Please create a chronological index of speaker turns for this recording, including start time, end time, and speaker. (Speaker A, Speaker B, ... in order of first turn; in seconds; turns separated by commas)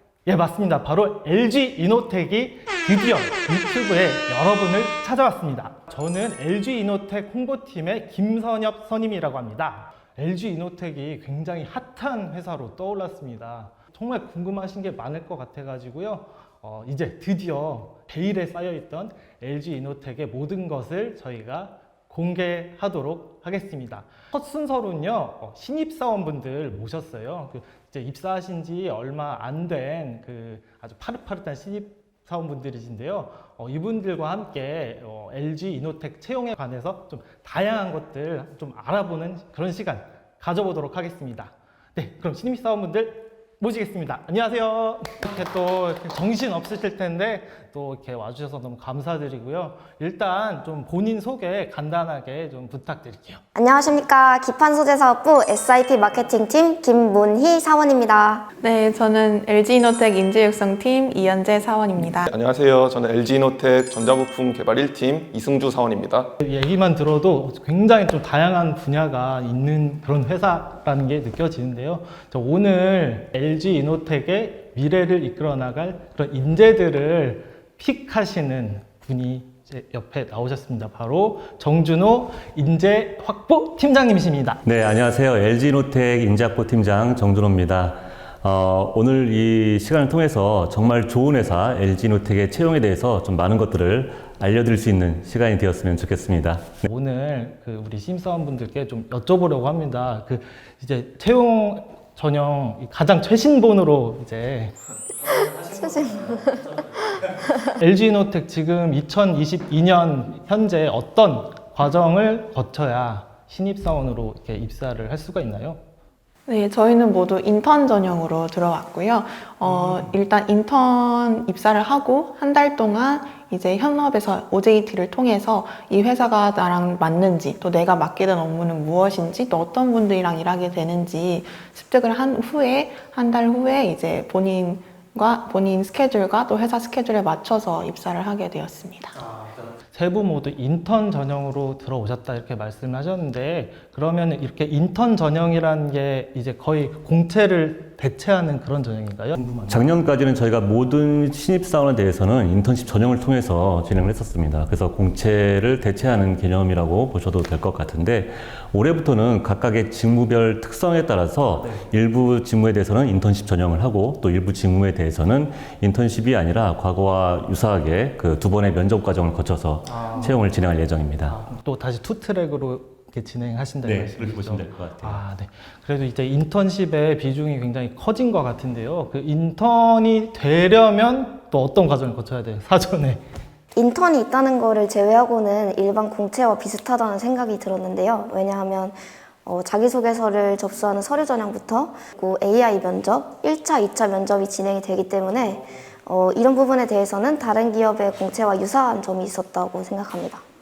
Speaker A: 0.3-53.4, Speaker B: 53.5-58.5, Speaker C: 58.6-62.3, Speaker D: 62.3-66.3, Speaker A: 66.4-84.6, Speaker E: 84.6-96.8, Speaker A: 96.8-104.7, Speaker B: 105.2-107.6, Speaker A: 107.8-115.8, Speaker C: 116.5-139.2, Speaker A: 119.7-120.1, Speaker A: 139.4-149.9, Speaker E: 149.7-171.4, Speaker A: 169.9-170.3, Speaker A: 171.3-183.2, Speaker E: 173.8-175.2, Speaker B: 183.8-200.4